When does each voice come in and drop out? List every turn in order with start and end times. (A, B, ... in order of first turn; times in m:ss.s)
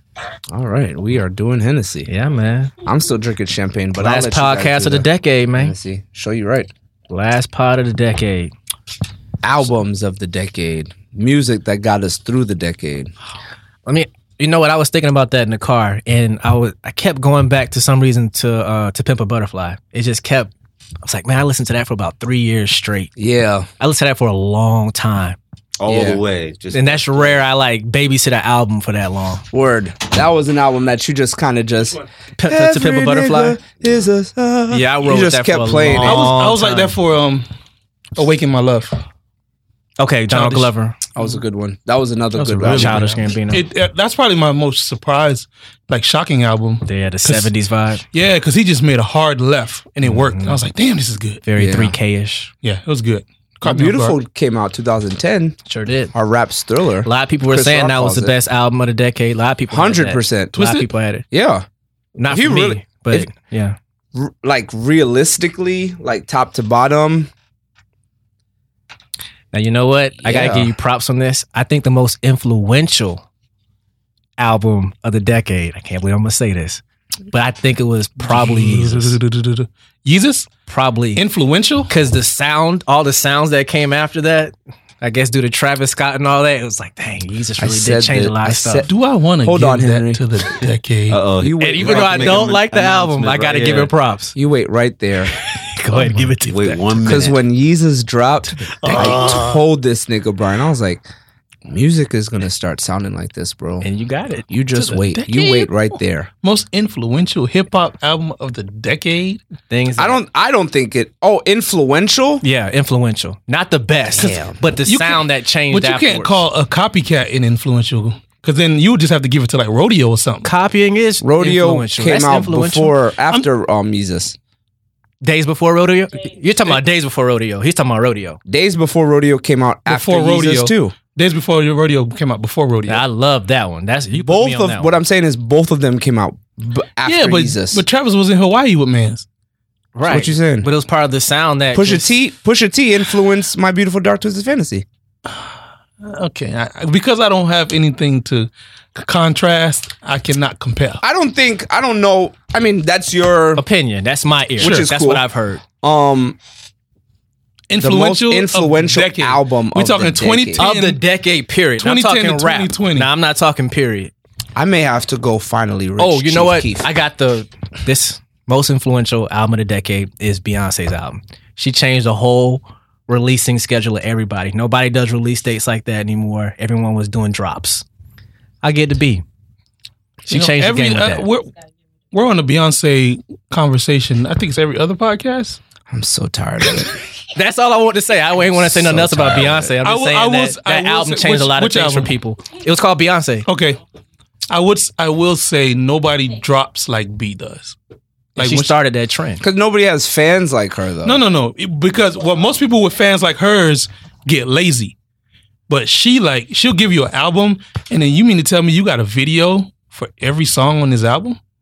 0:00.5-0:02.1 A
0:02.1-0:02.7 B
0:02.8-0:06.7 A
0:04.0-0:05.8 B
0:07.1-0:08.5 B
0:09.4-0:13.1 A
0:13.9-0:20.5 B
0:21.0-0:23.1 B
0:23.2-0:23.7 A
0:23.8-0:25.4 B
0:25.8-0:27.4 C
0:25.9-0:26.2 A
0:26.7-0:29.4 B
0:29.5-0:36.4 A
0:32.4-0:33.6 B
0:34.7-0:37.0 B
0:35.8-0:37.5 D
0:38.2-0:39.0 D
0:40.0-0:41.0 B
0:40.3-0:40.7 D
0:41.2-0:43.1 A
0:42.4-0:47.5 D
0:42.6-0:43.6 B
0:46.8-0:48.0 B
0:48.1-0:51.4 D
0:50.0-0:50.6 B
0:51.4-0:52.5 B
0:51.6-0:52.0 A
0:52.6-0:54.2 D
0:53.6-0:55.6 A
0:55.6-0:56.1 B
0:56.1-0:58.4 A
0:57.0-1:01.2 B
0:59.7-1:00.6 A
1:00.6-1:00.9 D
1:01.3-1:01.6 A
1:02.2-1:03.8 B
1:02.3-1:03.3 A
1:04.1-1:07.3 A
1:09.5-1:13.2 B
1:10.2-1:10.8 A
1:14.4-1:19.2 B
1:18.2-1:20.5 D
1:20.7-1:21.2 B
1:21.2-1:21.9 D
1:21.9-1:28.9 B
1:27.6-1:28.9 A
1:28.9-1:31.2 D
1:29.4-1:30.2 A
1:31.1-1:33.9 C
1:31.4-1:32.5 A
1:31.6-1:34.4 B
1:34.4-1:35.3 A
1:35.5-1:37.2 B
1:36.0-1:36.3 D
1:36.4-1:37.4 C
1:37.0-1:41.1 A
1:38.5-1:39.4 B
1:38.8-1:39.6 D
1:41.7-1:43.9 A
1:43.8-1:44.5 B
1:44.5-1:46.3 A
1:44.8-1:45.7 D
1:46.4-1:49.4 D
1:49.7-1:50.2 B
1:50.0-1:52.4 A
1:52.4-1:56.4 B
1:54.1-1:54.6 A
1:54.8-2:00.5 D
2:00.4-2:03.0 B
2:01.2-2:04.4 A
2:05.2-2:08.4 B
2:08.5-2:10.9 A
2:09.9-2:13.0 D
2:12.9-2:14.9 B
2:14.1-2:17.8 A
2:17.0-2:19.3 D
2:20.0-2:22.1 B
2:20.1-2:20.7 A
2:21.7-2:24.8 A
2:25.3-2:31.0 D
2:31.0-2:33.6 A
2:33.6-2:35.6 B
2:34.6-2:35.2 A
2:34.6-2:34.9 D
2:35.8-2:36.4 A
2:37.7-2:41.0 D
2:37.8-2:40.7 A
2:40.6-2:44.1 B
2:41.8-2:43.1 D
2:44.6-2:46.9 A
2:46.0-2:57.8 B
2:58.6-2:59.2 B
3:00.3-3:01.3 B
3:00.3-3:01.5 D
3:02.1-3:05.6 D
3:05.9-3:06.9 A
3:07.4-3:13.5 B
3:08.8-3:09.6 A
3:09.0-3:12.1 D
3:13.5-3:13.8 D
3:14.5-3:17.8 D
3:18.4-3:18.8 D
3:18.4-3:19.4 B
3:19.4-3:21.2 A
3:21.0-3:25.0 D
3:25.7-3:31.4 D